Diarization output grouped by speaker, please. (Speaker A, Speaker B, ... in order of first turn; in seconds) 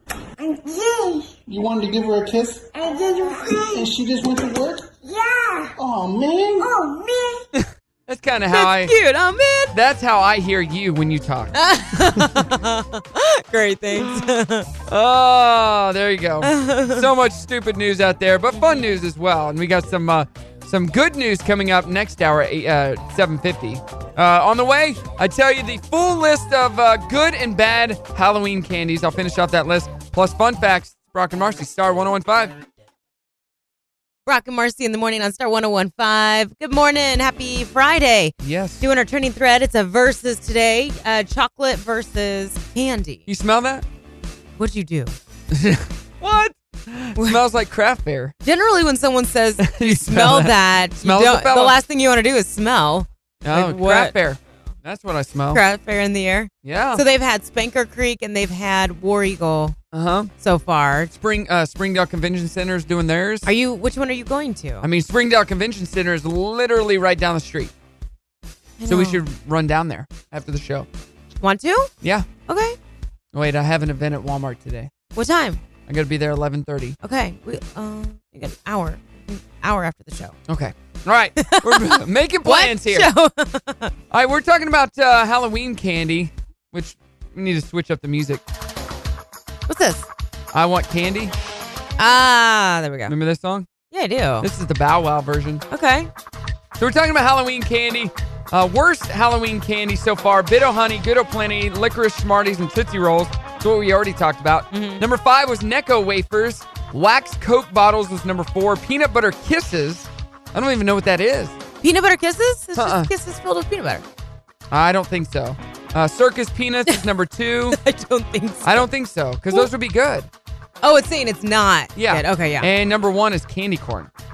Speaker A: 0.4-1.3, 2.7-3.9, 5.0-5.8, 6.6-7.5
Speaker B: 1.5-2.7, 3.7-4.9, 5.8-6.7
Speaker C: 7.5-9.0, 9.7-11.5, 12.1-12.5, 14.9-32.6, 38.4-38.8, 43.3-43.9, 45.5-48.4, 49.6-51.8, 53.4-55.6, 56.6-57.0, 59.9-60.3, 61.1-63.5, 64.8-67.7, 68.9-70.9, 72.0-72.3, 73.3-74.9, 75.9-77.0, 80.5-83.1, 84.1-88.4, 90.5-91.3, 93.1-93.7, 94.4-95.7, 96.8-111.6, 112.8-113.1, 114.7-117.8, 118.6-120.3, 122.0-124.1
Speaker D: 8.5-9.8, 11.5-14.7, 16.4-17.1, 18.6-18.9, 34.3-43.2, 44.6-45.1, 48.4-54.2, 55.5-59.8, 60.4-61.1, 63.5-64.9, 68.8-69.2, 71.4-71.9, 72.5-72.8, 75.2-75.6, 77.0-80.4, 81.4-81.9, 82.4-83.9, 89.7-90.1, 92.0-93.1, 93.9-94.5, 95.7-96.1, 104.7-105.0, 111.8-114.0, 117.7-118.9, 120.8-122.7